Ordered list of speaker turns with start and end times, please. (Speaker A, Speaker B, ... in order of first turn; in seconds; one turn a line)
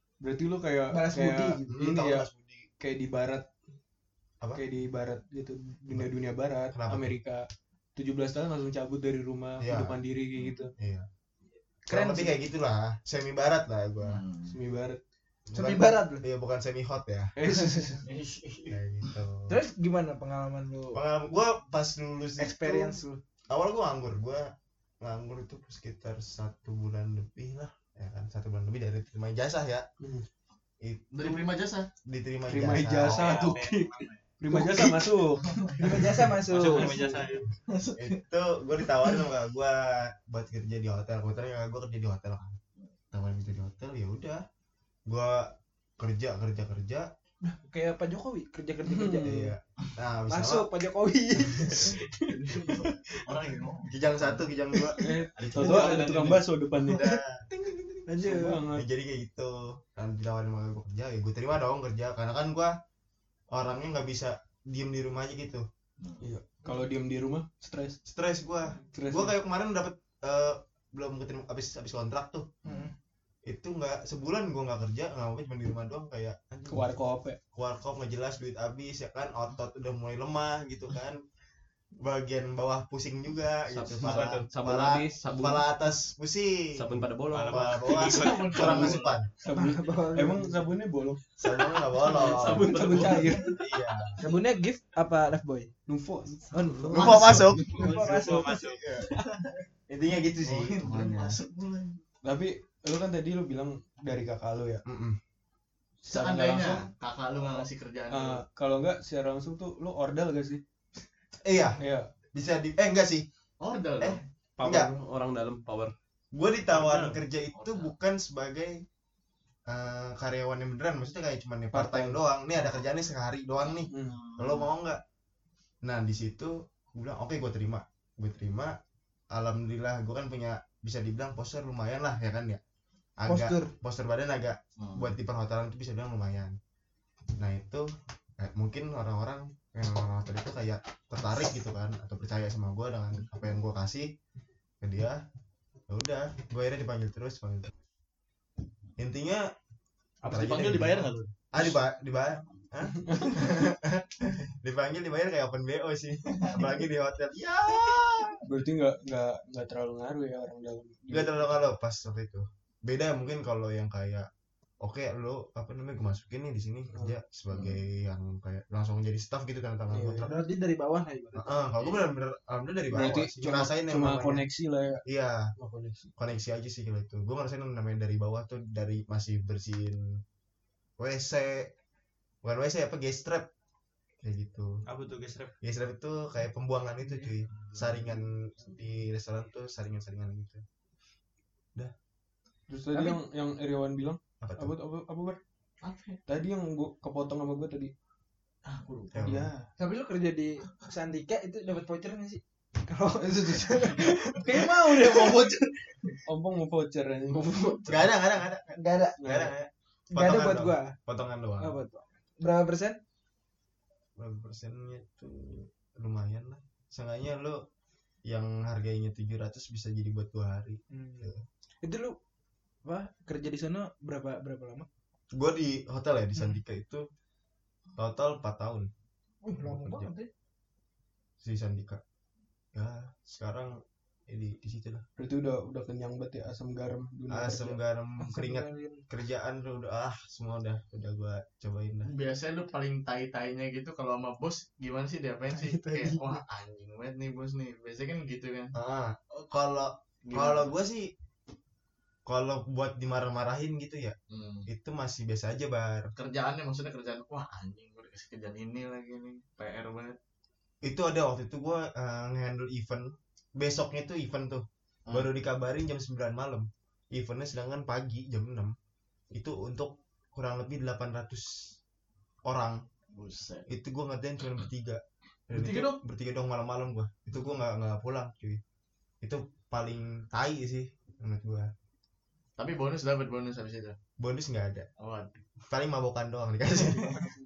Speaker A: 0.2-2.3
Speaker B: 0.9-1.6
Speaker C: 1.7-2.7
Speaker A: 2.8-3.5
Speaker A: 4.5-10.7
Speaker C: 6.7-7.1
Speaker C: 9.6-10.0
Speaker C: 10.8-11.1
Speaker B: 11.9-12.3
Speaker C: 11.9-14.2
Speaker D: 14.0-14.6
Speaker A: 14.4-15.0
Speaker C: 15.5-17.3
Speaker B: 15.5-16.2
Speaker A: 17.4-18.0
Speaker B: 17.4-18.0
Speaker D: 18.0-19.1
Speaker C: 18.7-19.6
Speaker B: 19.5-21.0
Speaker C: 20.9-23.0
Speaker B: 22.4-23.2
Speaker C: 23.5-24.5
Speaker C: 25.0-29.9
Speaker A: 30.0-30.2
Speaker C: 30.8-33.4
Speaker D: 31.1-31.9
Speaker A: 32.5-37.2
Speaker E: 33.0-34.3
Speaker D: 35.5-36.0
Speaker B: 35.7-37.0
Speaker E: 36.5-37.5
Speaker D: 37.0-38.2
Speaker C: 38.0-42.6
Speaker D: 38.8-39.2
Speaker C: 43.1-44.4
Speaker C: 45.1-47.1
Speaker B: 47.4-49.5
Speaker A: 48.8-49.5
Speaker C: 49.2-50.7
Speaker B: 50.3-52.0
Speaker A: 51.6-52.3
Speaker D: 52.3-54.5
Speaker C: 53.9-56.0
Speaker A: 55.0-57.0
Speaker E: 55.5-56.4
Speaker B: 56.9-57.2
Speaker C: 56.9-57.5
Speaker B: 58.0-58.6
Speaker A: 58.1-58.9
Speaker C: 58.7-62.7
Speaker C: 63.5-65.7
Speaker D: 66.0-66.3
Speaker A: 66.2-68.0
Speaker C: 68.0-72.5
Speaker A: 68.9-69.3
Speaker B: 72.6-72.9
Speaker C: 73.5-76.9
Speaker A: 76.7-77.4
Speaker C: 77.5-81.2
Speaker C: 82.0-89.3
Speaker F: 83.7-85.6
Speaker E: 84.0-84.5
Speaker F: 86.8-87.8
Speaker E: 87.3-89.1
Speaker D: 87.8-89.1
Speaker A: 89.4-91.3
Speaker B: 89.5-90.5
Speaker C: 91.4-94.2
Speaker A: 91.9-93.5
Speaker F: 92.5-93.0
Speaker B: 94.2-95.7
Speaker A: 95.9-96.5
Speaker B: 96.5-98.7
Speaker D: 96.9-97.7
Speaker C: 96.9-97.9
Speaker E: 97.7-99.3
Speaker C: 98.7-99.1
Speaker C: 99.9-101.4
Speaker D: 100.4-102.0
Speaker A: 102.2-104.8
Speaker C: 104.8-105.2
Speaker A: 106.0-106.9
Speaker D: 106.1-108.4
Speaker A: 107.6-110.6
Speaker C: 111.4-111.8
Speaker A: 111.8-112.1
Speaker C: 112.3-113.3
Speaker D: 113.6-114.2
Speaker C: 114.0-114.9
Speaker F: 114.6-115.9
Speaker C: 116.3-118.8
Speaker E: 116.8-117.2
Speaker D: 117.5-117.9
Speaker C: 119.7-125.0
Speaker A: 121.7-122.2
Speaker A: 123.9-124.2
Speaker D: 124.1-124.7
Speaker C: 125.8-128.7
Speaker C: 129.3-132.6
Speaker C: 133.2-136.5
Speaker B: 133.3-133.7
Speaker D: 134.8-135.1
Speaker C: 137.4-144.1
Speaker C: 144.8-145.2
Speaker C: 145.9-147.7
Speaker C: 149.0-149.5
Speaker D: 150.2-151.4
Speaker C: 150.2-158.4
Speaker A: 153.0-153.3
Speaker D: 156.4-156.7
Speaker A: 158.4-161.6
Speaker C: 161.1-164.3
Speaker C: 164.8-170.3
Speaker D: 167.5-167.8
Speaker A: 169.9-170.3
Speaker B: 170.2-171.5
Speaker C: 171.3-174.4
Speaker D: 171.8-172.0
Speaker A: 172.9-175.0
Speaker C: 175.0-175.5
Speaker A: 175.6-176.1
Speaker C: 176.2-180.0
Speaker C: 181.0-181.7
Speaker C: 182.4-183.5
Speaker C: 184.2-184.8
Speaker E: 184.9-185.5
Speaker C: 185.6-190.6
Speaker D: 187.7-188.0
Speaker A: 192.7-195.4
Speaker B: 192.9-193.2
Speaker C: 194.4-194.7
Speaker D: 195.8-196.2
Speaker A: 196.2-197.9
Speaker D: 198.6-199.4
Speaker C: 199.1-199.5
Speaker A: 199.2-199.6
Speaker B: 199.8-205.9
Speaker A: 206.2-208.0
Speaker F: 207.3-207.8
Speaker C: 207.9-211.8
Speaker B: 208.7-209.2
Speaker A: 209.2-209.5
Speaker B: 210.1-210.9
Speaker B: 211.6-213.0
Speaker C: 214.2-217.6
Speaker C: 218.2-221.4
Speaker B: 220.9-222.2
Speaker B: 222.8-224.9
Speaker C: 225.3-227.0
Speaker C: 228.0-228.9
Speaker B: 229.4-230.3
Speaker C: 229.6-230.1
Speaker C: 231.4-232.0
Speaker C: 232.7-235.0
Speaker A: 235.2-237.8
Speaker C: 237.3-242.1
Speaker B: 238.2-239.0
Speaker D: 242.0-248.7
Speaker B: 245.5-246.4
Speaker C: 248.7-251.1
Speaker D: 250.2-250.7
Speaker C: 252.2-256.1
Speaker D: 254.3-254.7
Speaker D: 256.1-260.2
Speaker C: 260.8-268.7
Speaker C: 269.3-271.7
Speaker C: 272.4-272.8
Speaker D: 273.1-273.7
Speaker C: 273.7-278.6
Speaker D: 275.5-276.0
Speaker C: 279.2-281.7
Speaker D: 282.6-284.0
Speaker C: 284.2-284.9
Speaker D: 285.0-285.4
Speaker C: 285.7-287.2
Speaker D: 286.9-287.2